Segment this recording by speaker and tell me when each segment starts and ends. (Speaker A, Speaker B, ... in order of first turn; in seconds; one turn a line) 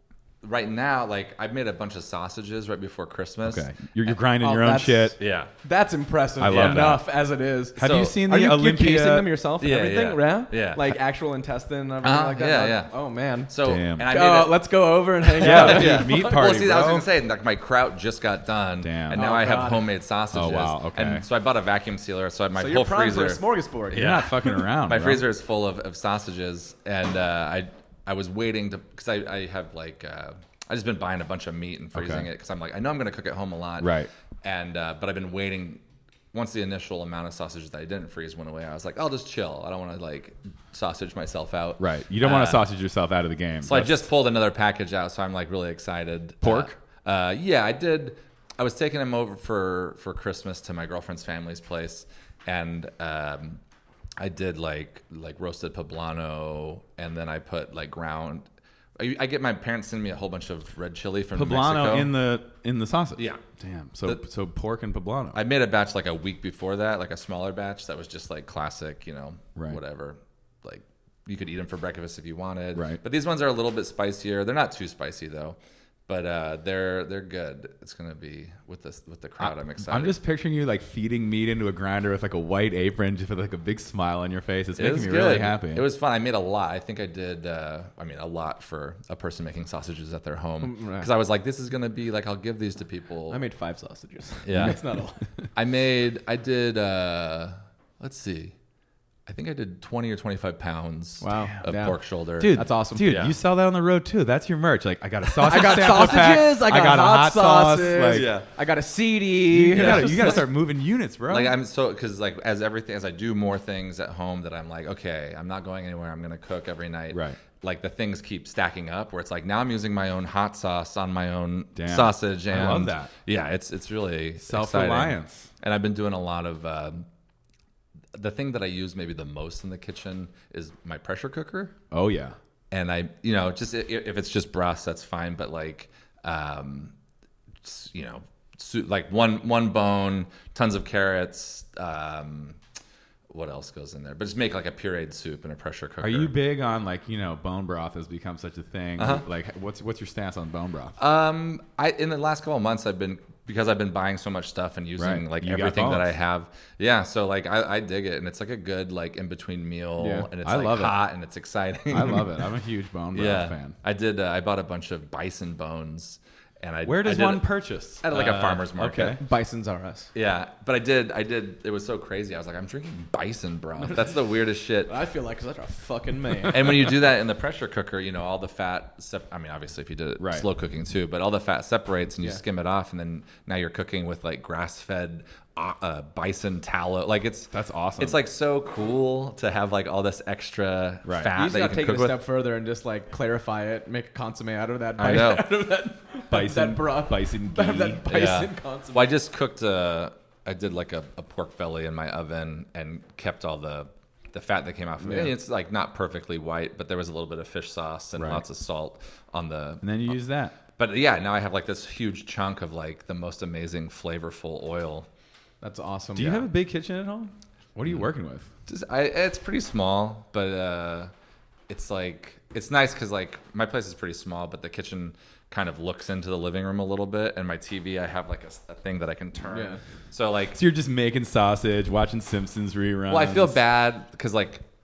Speaker A: 0.4-3.7
Speaker B: 3.4-5.2
Speaker C: 4.4-13.5
Speaker A: 5.2-5.5
Speaker B: 6.4-7.0
Speaker A: 6.5-6.9
Speaker B: 7.8-9.3
Speaker A: 7.8-8.2
Speaker A: 9.6-10.9
Speaker A: 12.0-12.9
Speaker A: 13.5-14.6
Speaker B: 13.6-14.1
Speaker C: 14.0-16.2
Speaker A: 15.2-35.8
Speaker B: 15.4-17.1
Speaker B: 18.8-19.2
Speaker C: 19.1-19.9
Speaker B: 20.3-21.2
Speaker C: 22.6-24.3
Speaker B: 23.9-25.2
Speaker B: 31.9-32.3
Speaker B: 33.8-34.1
Speaker A: 36.3-42.6
Speaker B: 41.8-44.1
Speaker A: 43.6-53.6
Speaker B: 46.4-46.8
Speaker A: 54.2-58.5
Speaker A: 59.0-62.1
Speaker B: 61.4-65.4
Speaker A: 63.2-63.4
Speaker A: 65.3-80.2
Speaker B: 72.8-73.0
Speaker B: 79.4-85.9
Speaker A: 84.8-93.4
Speaker C: 90.6-91.1
Speaker C: 93.3-95.3
Speaker A: 94.5-94.8
Speaker A: 95.5-98.5
Speaker A: 99.3-103.4
Speaker C: 101.2-103.1
Speaker B: 102.4-108.4
Speaker C: 105.4-110.5
Speaker A: 108.1-108.5
Speaker B: 109.5-111.5
Speaker A: 109.7-110.5
Speaker A: 111.3-127.1
Speaker B: 117.1-117.4
Speaker B: 121.8-123.1
Speaker B: 124.4-125.5
Speaker A: 128.2-131.8
Speaker B: 131.9-132.3
Speaker A: 132.7-136.9
Speaker A: 137.6-142.6
Speaker A: 143.3-146.3
Speaker B: 146.0-150.9
Speaker A: 149.0-149.3
Speaker A: 151.0-162.4
Speaker B: 155.0-156.1
Speaker C: 160.0-160.3
Speaker B: 160.4-161.0
Speaker B: 161.9-163.8
Speaker A: 163.1-167.5
Speaker B: 166.8-169.2
Speaker A: 168.0-169.2
Speaker C: 169.0-170.1
Speaker A: 170.2-174.9
Speaker C: 174.9-177.1
Speaker A: 176.5-192.2
Speaker B: 180.2-180.5
Speaker B: 187.5-188.2
Speaker B: 191.1-191.3
Speaker C: 191.3-199.1
Speaker A: 195.0-195.6
Speaker B: 196.3-198.1
Speaker A: 198.1-210.2
Speaker C: 205.0-205.3
Speaker B: 208.2-208.4
Speaker B: 209.8-210.6
Speaker A: 210.8-215.1
Speaker C: 215.6-216.4
Speaker B: 216.2-218.5
Speaker A: 218.7-221.1
Speaker A: 221.7-230.6
Speaker C: 229.5-229.8
Speaker B: 230.6-233.6
Speaker A: 233.1-234.6